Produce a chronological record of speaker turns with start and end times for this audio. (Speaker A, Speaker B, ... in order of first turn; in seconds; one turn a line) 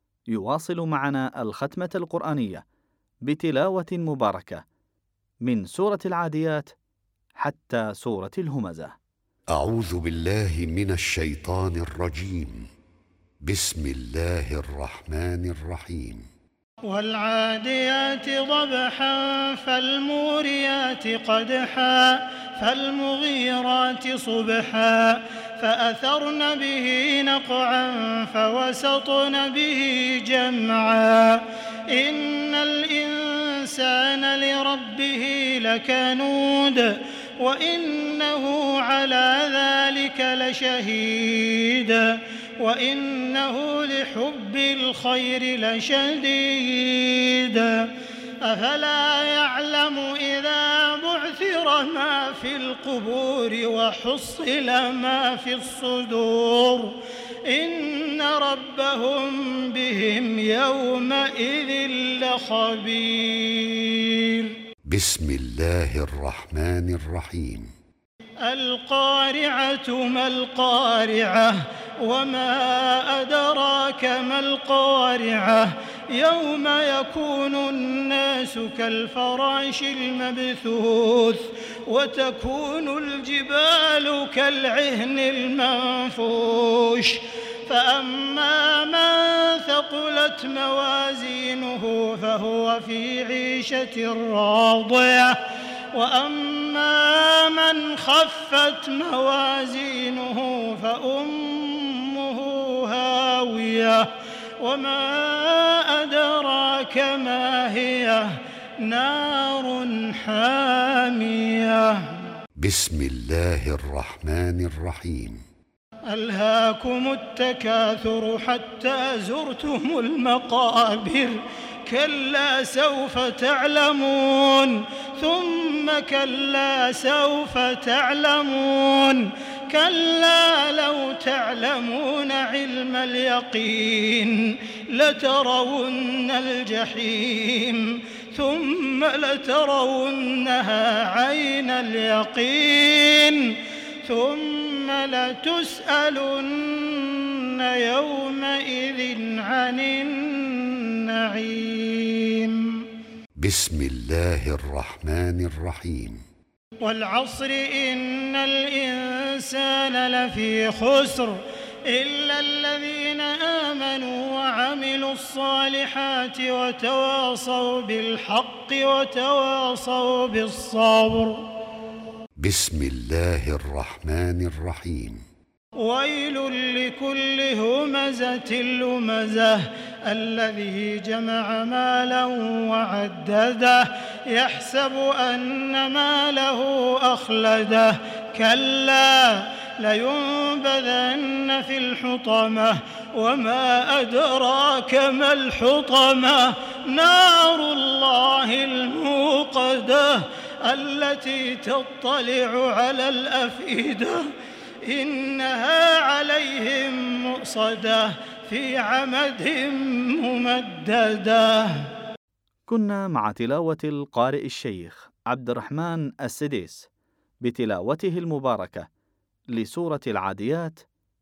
Speaker A: 0.3-2.6
Speaker A: 3.2-4.6
Speaker A: 5.4-6.7
Speaker A: 7.4-8.9
Speaker B: 9.5-12.7
Speaker B: 13.4-16.2
Speaker C: 16.8-64.6
Speaker B: 64.8-67.7
Speaker C: 68.4-95.4
Speaker C: 95.9-112.3
Speaker B: 112.6-115.4
Speaker C: 116.1-152.8
Speaker B: 153.4-156.2
Speaker C: 156.8-171.5
Speaker B: 172.4-175.2
Speaker C: 175.8-204.2
Speaker C: 204.8-211.9
Speaker A: 212.7-216.9
Speaker A: 217.4-218.9
Speaker A: 219.5-220.8